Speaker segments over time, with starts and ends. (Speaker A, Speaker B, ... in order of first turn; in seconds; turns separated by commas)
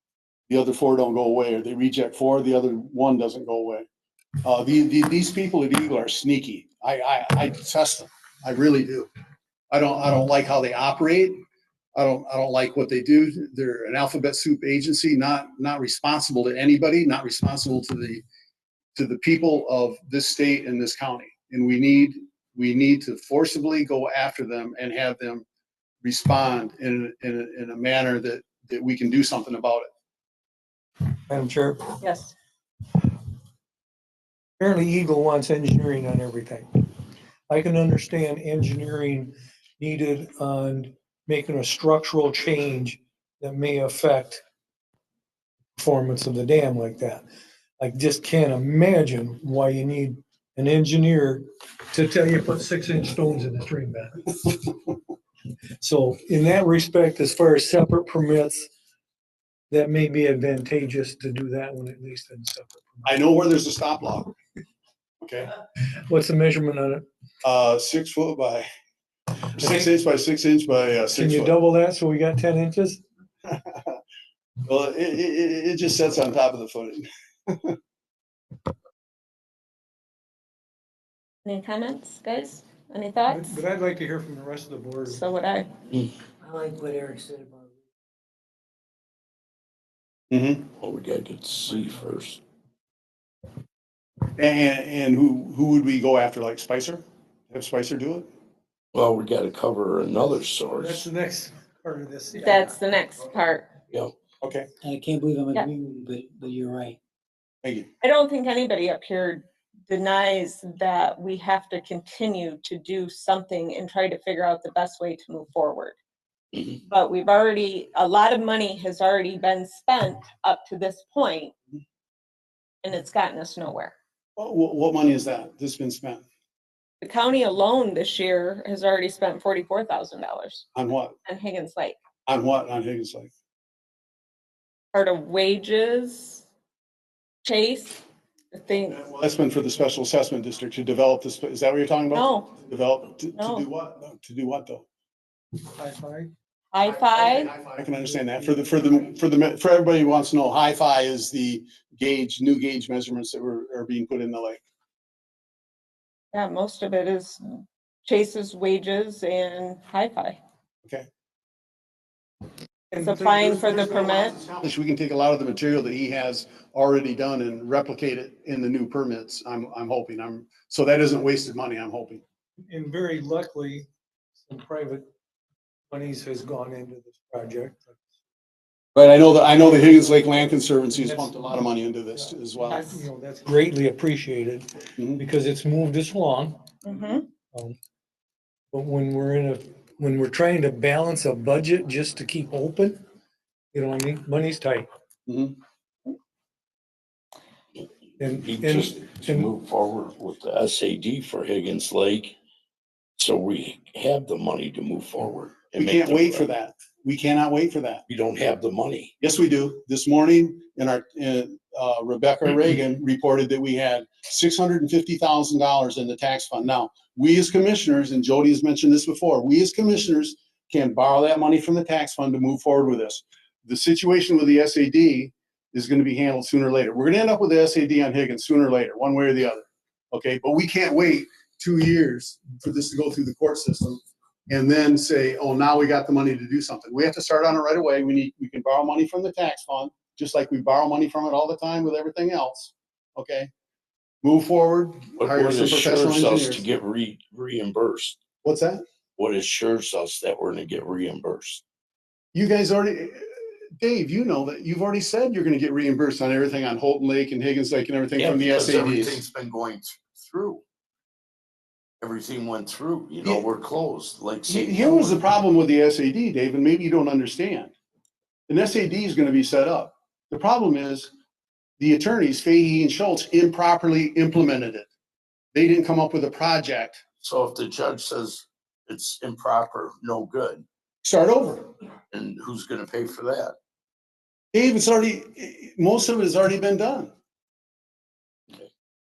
Speaker A: 0.5-3.9, Speaker A: 4.4-9.1, Speaker A: 9.7-11.4, Speaker A: 11.9-18.2, Speaker A: 18.9-25.4, Speaker A: 26.0-29.9, Speaker B: 31.3-32.0, Speaker C: 32.0-32.3, Speaker B: 34.6-36.7, Speaker B: 37.5-44.4, Speaker B: 45.8-47.2, Speaker B: 47.8-54.7, Speaker B: 55.8-58.7, Speaker B: 59.7-63.2, Speaker A: 63.0-64.3, Speaker A: 65.2-65.5, Speaker B: 65.9-67.1, Speaker A: 67.4-68.7, Speaker A: 69.5-71.5, Speaker B: 69.6-69.9, Speaker B: 71.1-73.0, Speaker A: 73.5-74.0, Speaker A: 74.7-77.8, Speaker C: 81.5-83.6, Speaker B: 83.3-85.2, Speaker C: 85.1-85.7, Speaker D: 86.4-87.7, Speaker A: 90.3-90.7, Speaker E: 90.8-92.4, Speaker A: 94.4-98.3, Speaker E: 98.9-101.1, Speaker B: 100.8-102.8, Speaker C: 102.4-103.7, Speaker A: 104.4-104.7, Speaker D: 104.8-107.0, Speaker A: 107.6-107.9, Speaker C: 108.0-116.0, Speaker C: 116.8-121.5, Speaker C: 122.8-123.9, Speaker A: 124.4-126.2, Speaker C: 127.0-130.7, Speaker A: 130.8-131.1, Speaker C: 131.3-132.0, Speaker A: 132.3-133.3, Speaker C: 134.9-136.4, Speaker C: 137.4-138.0, Speaker C: 138.5-139.0, Speaker A: 138.9-144.9, Speaker C: 142.1-142.5, Speaker C: 143.4-143.7, Speaker B: 145.8-146.3, Speaker C: 146.7-147.5, Speaker A: 146.8-154.6, Speaker B: 147.9-148.7, Speaker C: 156.3-160.4, Speaker B: 162.9-163.5, Speaker C: 163.0-164.4, Speaker A: 163.2-172.2, Speaker B: 172.7-173.9, Speaker B: 174.4-175.1, Speaker B: 175.9-178.0, Speaker A: 178.9-182.8, Speaker B: 179.5-181.6, Speaker B: 182.7-186.6, Speaker C: 182.7-183.1, Speaker A: 185.0-185.2, Speaker C: 186.8-187.3, Speaker B: 187.5-187.8, Speaker B: 188.7-193.0, Speaker B: 193.7-194.9, Speaker A: 195.3-195.6, Speaker B: 198.2-199.5, Speaker E: 198.4-202.3, Speaker E: 203.2-206.5, Speaker A: 205.8-208.0, Speaker E: 208.1-209.1, Speaker A: 209.2-243.5, Speaker A: 244.2-246.7, Speaker E: 245.2-248.2, Speaker A: 248.4-248.8, Speaker E: 249.2-251.6, Speaker A: 252.3-253.3, Speaker A: 253.8-259.2, Speaker E: 258.2-260.6, Speaker E: 262.0-265.2, Speaker A: 264.5-267.7, Speaker A: 268.5-271.1, Speaker A: 271.8-274.9, Speaker A: 275.5-277.0, Speaker E: 277.2-280.6, Speaker A: 281.0-281.7, Speaker E: 282.1-283.6, Speaker A: 284.5-287.1